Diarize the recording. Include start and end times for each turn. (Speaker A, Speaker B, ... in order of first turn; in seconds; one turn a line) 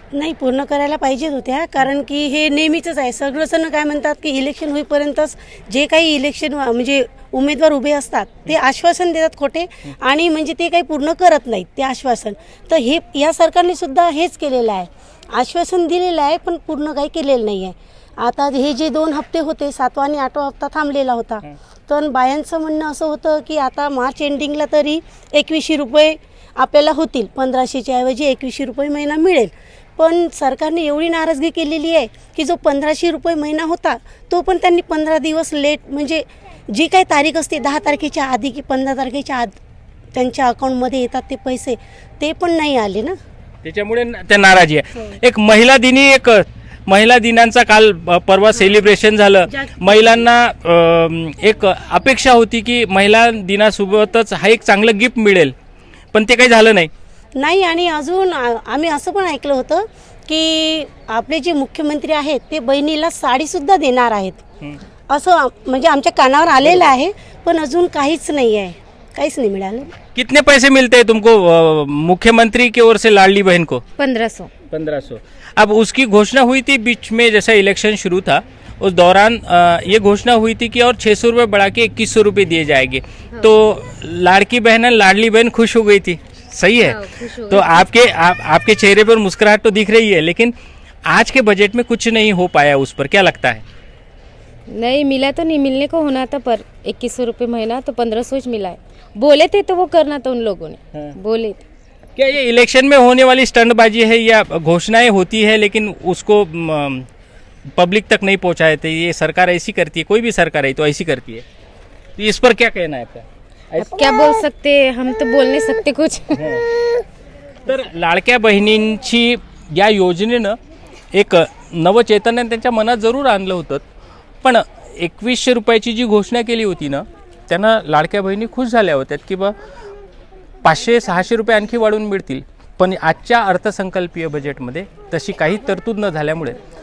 Speaker A: 0.1-39.6
Speaker A: 40.1-43.2
Speaker B: 43.6-55.5
Speaker B: 56.1-56.9
Speaker A: 57.4-64.4
Speaker A: 65.1-69.9
Speaker B: 70.2-73.8
Speaker C: 74.0-74.5
Speaker B: 74.7-90.5
Speaker C: 86.8-87.8
Speaker B: 91.1-93.6
Speaker C: 94.7-101.6
Speaker B: 102.2-107.1
Speaker B: 107.8-111.5
Speaker B: 112.2-114.2
Speaker C: 113.8-116.5
Speaker B: 116.3-116.7
Speaker B: 117.7-120.6
Speaker B: 121.1-123.8
Speaker B: 124.4-129.6
Speaker B: 130.6-136.6